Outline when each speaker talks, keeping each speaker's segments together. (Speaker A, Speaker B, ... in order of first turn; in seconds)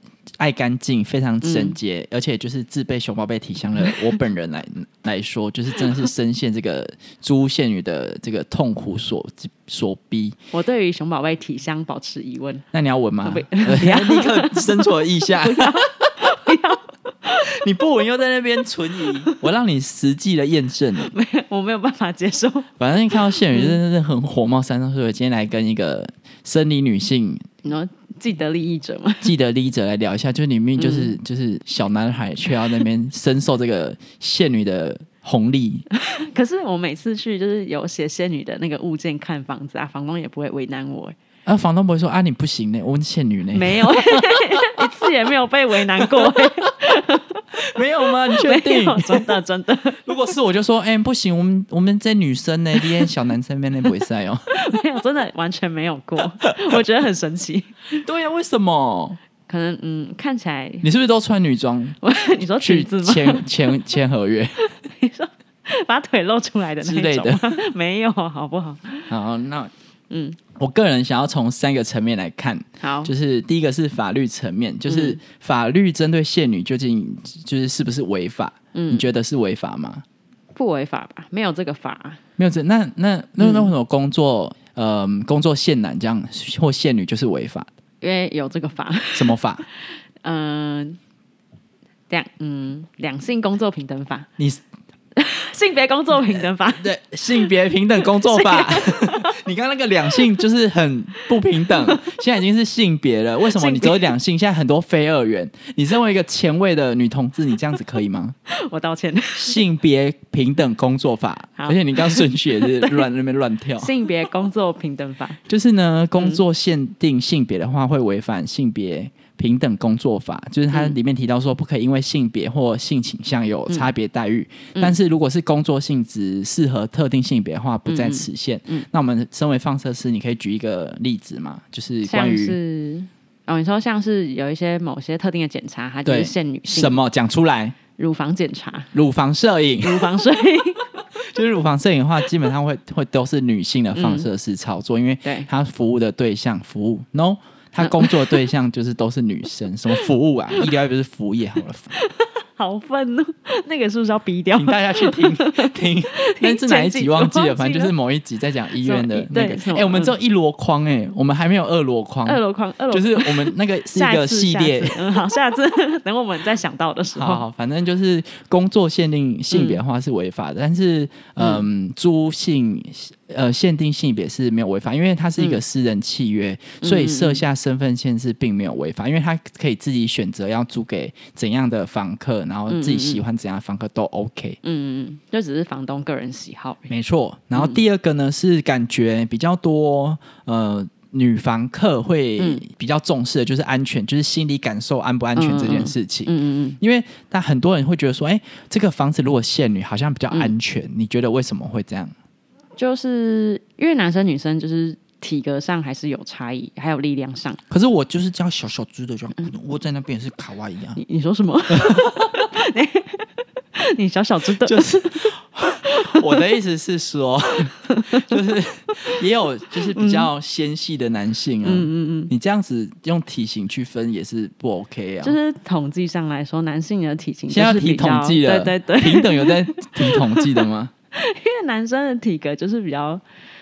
Speaker A: 0.4-10.4, 12.7-16.4, 17.4-21.1, 22.8-27.5, 29.2-35.9, 41.5-44.9, 46.0-46.7, 47.6-49.3, 50.0-54.6, 58.0-59.2, 60.8-62.0, 62.6-64.6, 66.8-67.6, 69.1-69.7, 70.5-80.0, 82.4-87.7, 89.1-89.7, 96.3-108.3, 109.4-113.9, 115.5-132.6, 136.1-137.8, 138.9-140.2, 141.2-151.9, 154.6-165.2, 167.2-184.6, 186.9-202.1, 207.7-211.0, 211.7-212.5, 214.6-225.4, 227.5-230.9
Speaker B: 1.4-1.8, 10.5-12.6, 13.2-17.5, 21.0-22.7, 23.5-23.8, 27.6-29.3, 30.8-31.1, 35.9-41.2, 43.5-47.4, 48.3-50.1, 54.5-58.0, 59.5-60.9, 62.0-63.5, 64.6-69.1, 70.1-70.4, 72.8-73.1, 74.9-75.2, 78.7-79.1, 80.5-82.2, 83.4-83.7, 88.0-91.0, 92.1-94.3, 95.2-96.9, 98.0-99.4, 101.6-102.1, 103.5-104.1, 108.5-109.6, 111.6-113.0, 113.8-115.4, 120.7-121.0, 127.9-128.9, 132.0-137.0, 138.0-138.9, 139.8-140.9, 143.9-144.3, 147.8-148.5, 152.0-157.9, 158.8-160.2, 162.2-167.4, 169.5-169.8, 171.4-171.7, 176.8-177.4, 182.7-183.2, 184.6-186.9, 192.4-192.6, 195.4-196.8, 202.8-207.6, 211.0-215.2, 215.9-216.4, 217.9-218.3, 219.9-220.3, 221.6-222.3, 225.2-233.2